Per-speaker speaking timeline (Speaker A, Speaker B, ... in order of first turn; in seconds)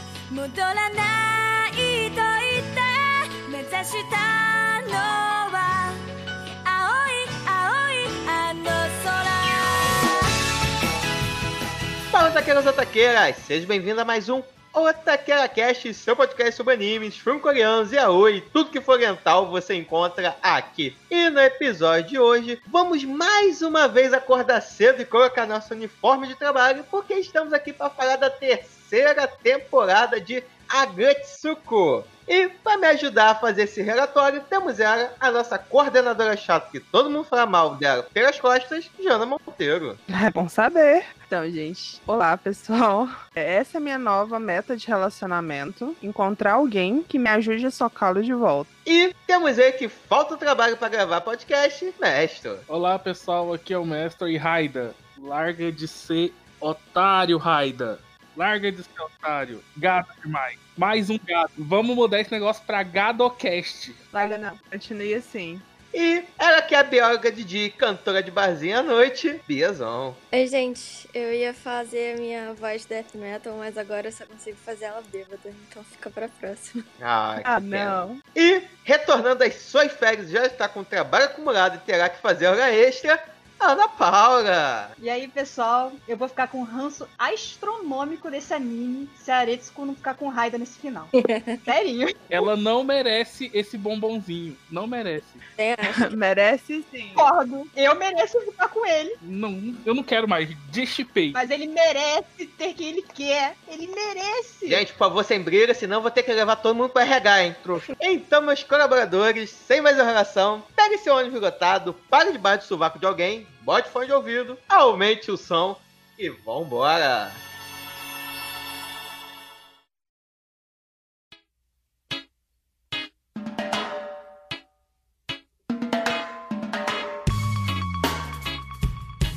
Speaker A: 0.3-6.0, 6.6-10.2
Speaker B: 12.1-40.0, 48.9-52.6, 65.9-70.2, 77.0-84.9, 104.7-117.4
Speaker C: 40.1-48.7, 64.1-65.6, 77.4-78.2, 95.8-97.2
Speaker D: 52.7-64.0, 92.3-95.4, 99.2-101.4
Speaker E: 70.3-76.8, 91.2-91.7, 95.6-96.2
Speaker F: 85.0-91.1, 91.6-92.5, 97.1-99.2, 101.3-104.8